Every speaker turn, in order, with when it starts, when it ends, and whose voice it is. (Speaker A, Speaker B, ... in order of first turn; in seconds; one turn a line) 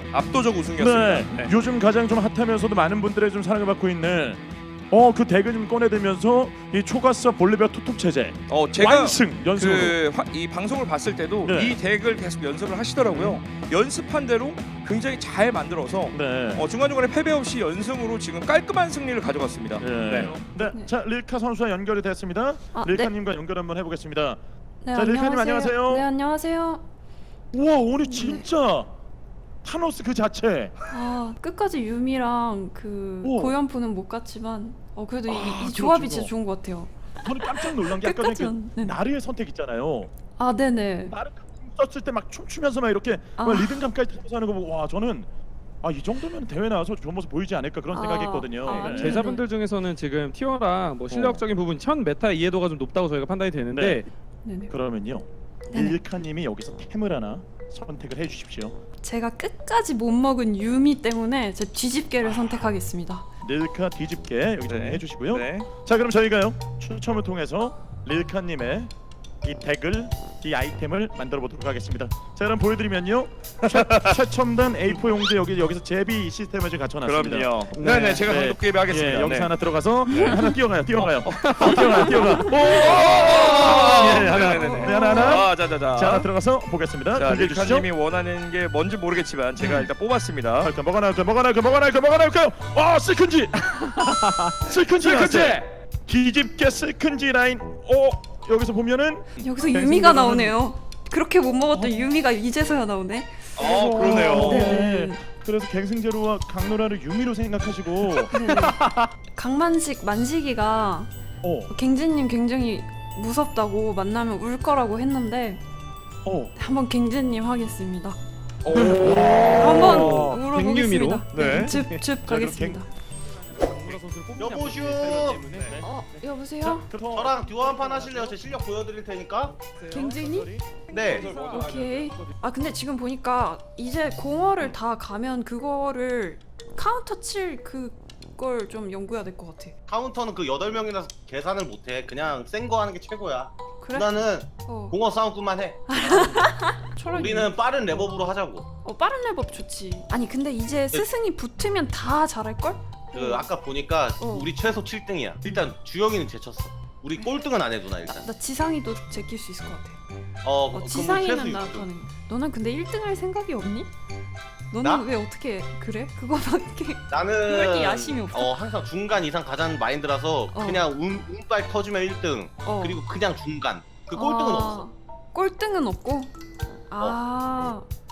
Speaker A: 0.1-1.5
Speaker B: 0.8-10.0
Speaker A: 8.5-20.4
Speaker B: 11.4-11.8
Speaker B: 13.1-13.4
Speaker B: 16.1-16.7
Speaker B: 19.8-24.4
Speaker C: 20.7-20.9
Speaker C: 22.7-23.1
Speaker C: 24.8-26.8
Speaker B: 24.9-26.1
Speaker B: 27.5-28.9
Speaker C: 28.1-28.5
Speaker B: 29.6-30.7
Speaker C: 30.9-39.0
Speaker B: 33.2-33.5
Speaker B: 35.3-36.3
Speaker B: 37.2-40.1
Speaker C: 40.4-41.1
Speaker B: 41.0-45.3
Speaker C: 43.4-43.8
Speaker B: 45.8-49.3
Speaker C: 47.9-49.5
Speaker D: 48.7-54.0
Speaker B: 51.1-51.5
Speaker B: 53.7-54.0
Speaker C: 54.4-54.7
Speaker B: 54.7-58.8
Speaker C: 55.7-56.0
Speaker C: 59.0-63.2
Speaker B: 63.4-68.9
Speaker A: 64.7-65.7
Speaker B: 69.4-87.9
Speaker A: 73.6-74.2
Speaker A: 77.0-79.5
Speaker A: 80.1-86.3
Speaker C: 84.5-85.4
Speaker A: 87.1-90.7
Speaker B: 90.6-100.6
Speaker A: 95.0-95.6
Speaker C: 99.4-105.2
Speaker B: 101.7-102.1
Speaker A: 103.5-104.8
Speaker B: 103.6-109.1
Speaker E: 103.8-104.3
Speaker C: 108.3-111.1
Speaker B: 111.4-111.7
Speaker C: 111.7-115.6
Speaker B: 116.2-116.5
Speaker C: 116.5-118.2
Speaker D: 118.7-121.2
Speaker C: 119.1-122.9
Speaker B: 119.9-120.2
Speaker A: 121.3-122.0
Speaker B: 122.2-122.8
Speaker D: 123.5-125.8
Speaker E: 124.4-125.4
Speaker B: 125.5-128.4
Speaker C: 125.8-126.9
Speaker E: 127.1-129.6
Speaker D: 129.6-132.3
Speaker C: 129.9-130.5
Speaker B: 130.3-130.6
Speaker E: 130.9-131.3
Speaker A: 131.1-131.6
Speaker C: 131.4-139.8
Speaker E: 139.9-146.5
Speaker C: 143.8-145.0
Speaker C: 145.9-148.1
Speaker E: 147.1-148.7
Speaker C: 148.8-153.5
Speaker E: 153.1-158.3
Speaker C: 154.2-154.5
Speaker C: 158.0-160.0
Speaker E: 160.4-161.9
Speaker C: 160.7-163.9
Speaker C: 164.7-168.7
Speaker E: 167.1-174.9
Speaker C: 170.5-170.9
Speaker C: 172.6-173.0
Speaker C: 174.1-177.9